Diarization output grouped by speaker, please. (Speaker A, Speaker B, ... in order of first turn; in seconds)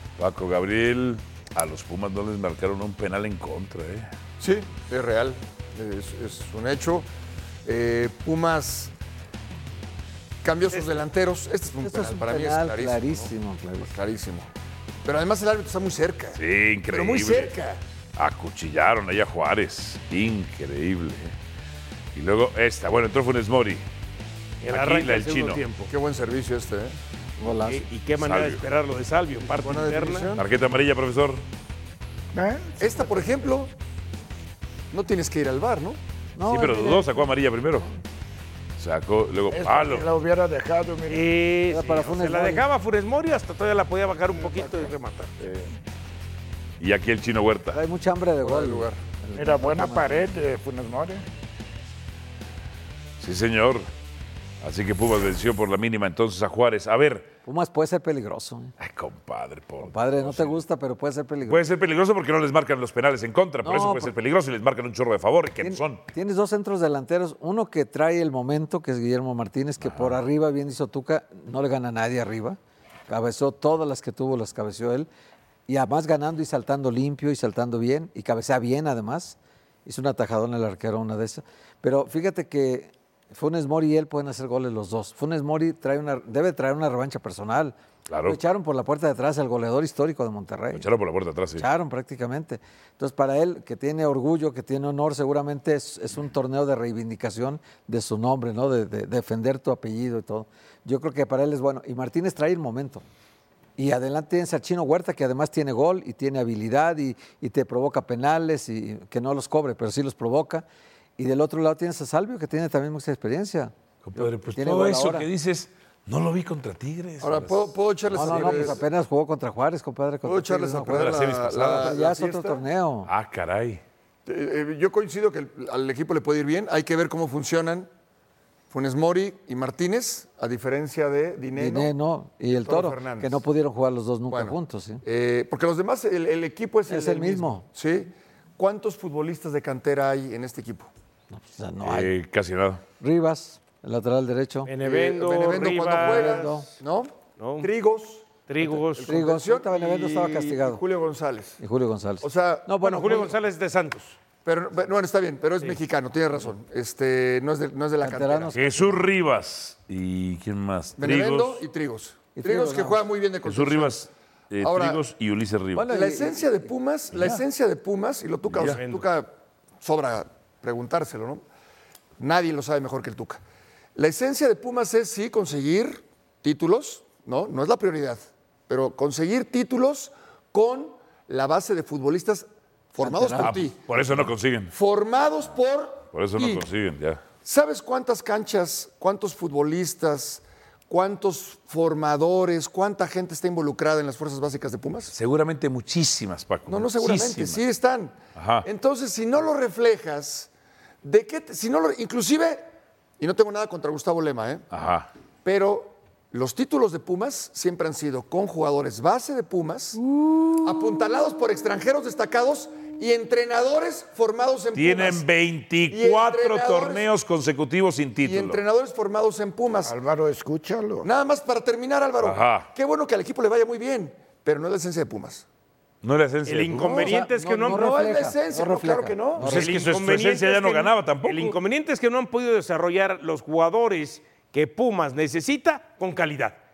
Speaker A: 0.2-4.1, 16.4-17.5, 18.2-21.3, 22.1-23.8, 24.7-25.6, 28.2-28.6, 30.4-31.4, 36.4-37.9, 38.8-40.1, 46.8-47.8, 53.2-53.9, 54.6-57.3, 58.8-60.6, 61.4-66.0, 69.8-70.2, 88.1-88.4, 90.7-91.7, 114.0-118.7, 120.9-121.9, 123.0-123.8, 141.8-142.8, 158.5-161.7, 163.4-165.9, 168.5-168.8, 183.4-184.7, 186.1-187.2, 195.1-197.6, 198.3-198.7, 204.7-205.1, 214.7-218.6, 222.2-222.7, 226.0-227.2, 229.4-231.6
Speaker B: 4.4-7.1, 7.6-8.9, 10.4-14.5, 15.0-17.8, 25.9-27.0, 29.5-30.4, 32.8-33.7, 34.9-36.0, 48.4-49.0, 117.2-118.8, 120.2-122.6, 124.2-127.9, 128.7-131.9, 132.5-133.4, 134.3-140.9, 144.8-151.6, 152.2-152.7, 154.4-158.5, 161.0-164.0, 164.6-165.0, 165.9-171.4, 172.2-173.4, 173.9-183.8, 184.7-186.6, 187.4-195.1, 196.7-200.5, 201.0-202.6, 203.2-204.7, 205.4-210.0, 210.6-215.2, 215.9-217.1, 218.2-219.9, 221.0-225.4, 227.6-229.7
Speaker C: 10.7-11.0, 24.6-25.9, 27.6-30.3, 41.1-45.3, 144.7-146.7, 147.4-147.7, 148.4-149.2, 152.8-154.2, 168.6-169.1, 226.4-228.1, 229.4-236.6
Speaker D: 11.8-13.9, 27.4-27.9, 36.4-37.3, 41.7-42.6, 47.7-50.2, 57.4-58.7, 59.8-61.6, 63.6-64.1, 65.6-72.6, 73.1-75.1, 75.7-90.9, 91.5-103.0, 103.8-110.6, 111.2-115.3, 118.1-123.1, 131.6-135.0, 136.9-137.6, 141.3-142.1, 143.0-144.7, 145.9-146.7, 149.1-150.8, 151.6-153.3, 158.0-159.0, 162.3-163.0, 165.7-166.7, 183.0-183.6, 226.9-229.8
Speaker E: 32.3-33.3, 39.5-41.3, 44.4-45.8, 49.4-51.2, 219.8-221.1